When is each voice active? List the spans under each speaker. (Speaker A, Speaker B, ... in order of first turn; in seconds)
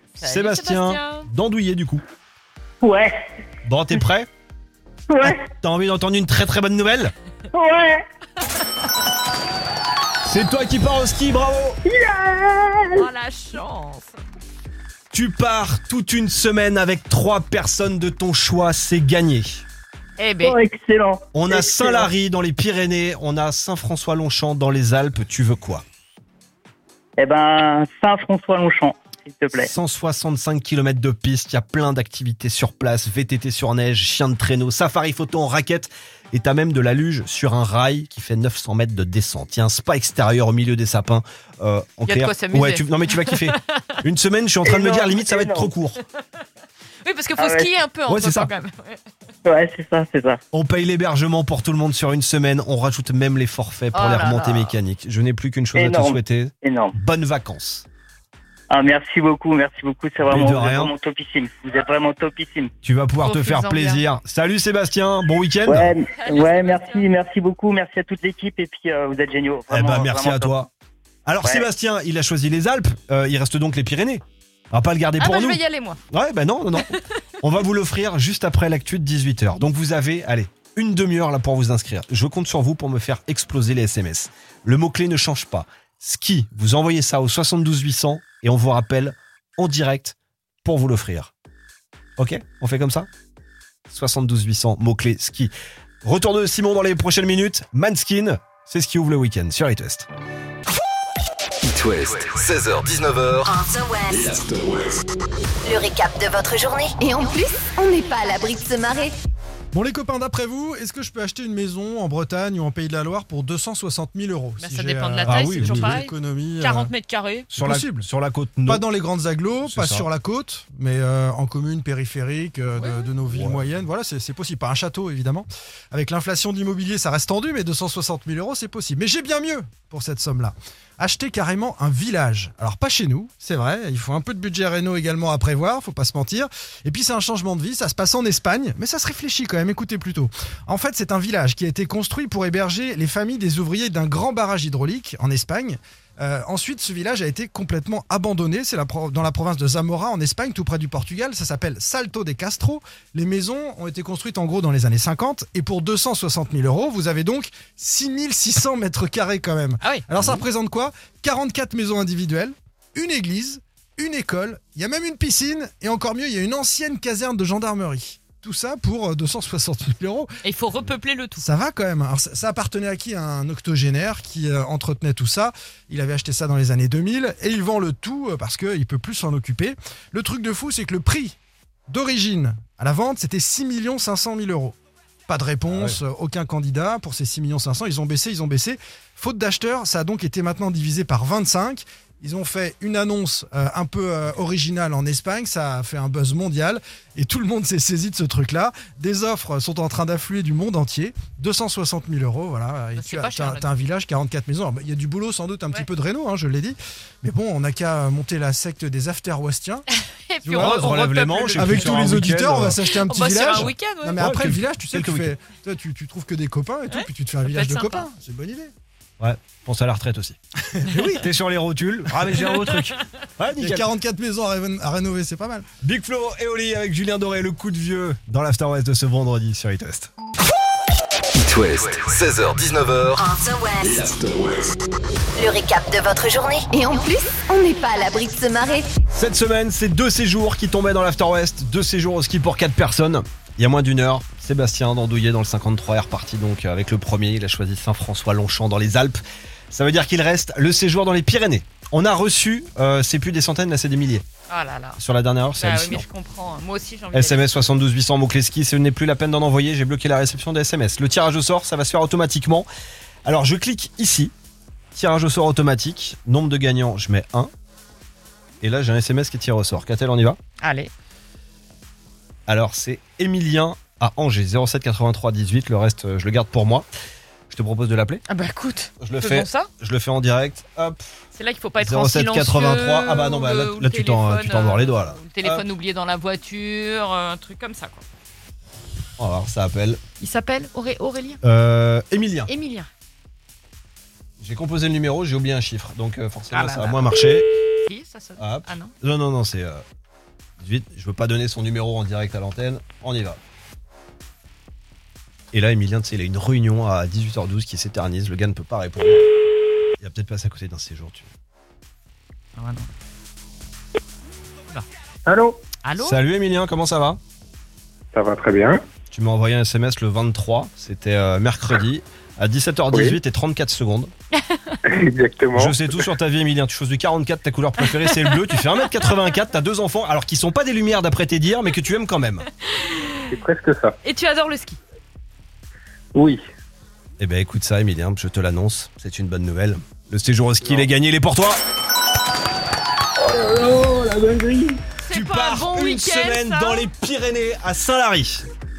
Speaker A: 0.2-1.3, 13.0-14.2, 20.2-20.6, 42.0-44.0, 47.0-49.0, 53.9-54.7, 63.2-64.0, 66.1-67.1, 75.2-76.0, 114.6-117.5, 122.8-123.1, 159.8-160.1, 170.4-171.5, 202.9-203.7, 210.3-212.1, 213.0-214.2, 216.9-218.1, 222.4-222.9, 254.5-255.0, 255.5-257.7, 270.6-270.9, 278.3-279.7, 281.3-288.0, 290.2-291.4, 292.5-292.9, 296.5-297.2, 297.9-298.9, 312.6-312.9, 315.8-316.2, 324.3-324.8, 327.8-329.1, 332.6-333.3, 334.0-334.8, 345.0-346.9
Speaker B: 0.2-2.0, 3.6-4.3, 5.2-7.1, 10.2-11.8, 15.1-19.6, 21.3-25.8, 29.6-46.0, 48.1-48.5, 50.5-57.8, 60.2-60.9, 62.8-65.9, 69.7-70.7, 71.2-91.3, 92.2-93.1, 93.9-95.5, 96.0-100.1, 115.2-116.0, 117.5-118.8, 119.7-120.1, 123.3-123.6, 185.7-186.0, 210.6-212.8, 213.5-215.3, 219.2-220.4, 221.2-223.9, 225.8-230.1, 231.9-233.0, 239.1-249.2, 249.7-254.2, 255.0-256.0, 257.1-262.7, 263.2-264.3, 264.9-267.5, 268.6-270.4, 272.5-276.9, 277.5-278.2, 279.0-281.1, 281.8-285.7, 289.2-290.0, 291.4-292.5, 294.4-297.5, 298.4-299.8, 300.6-303.4, 305.5-309.3, 310.0-311.3, 316.0-317.2, 319.1-324.1, 325.5-332.4, 337.2-341.6, 345.1-348.5
Speaker C: 2.8-3.1, 5.1-5.4, 7.5-8.0, 11.8-13.1, 20.4-22.1, 27.2-29.7, 44.6-45.7, 47.4-47.7, 49.5-50.4, 55.8-56.9, 58.7-62.7, 65.7-70.5
Speaker D: 101.6-105.0, 231.3-234.8
Speaker E: 103.5-104.1, 105.6-109.1, 233.1-233.8, 235.4-238.9
Speaker F: 109.7-116.9, 117.5-118.1, 118.7-170.3, 171.4-181.3, 181.9-184.8, 185.3-209.8, 210.4-210.9, 211.5-218.7, 220.7-221.2, 223.6-225.7
Speaker G: 315.3-315.6, 318.1-318.8, 322.9-323.2, 324.9-326.1, 333.3-333.9, 336.1-336.4, 340.6-340.9, 343.2-344.8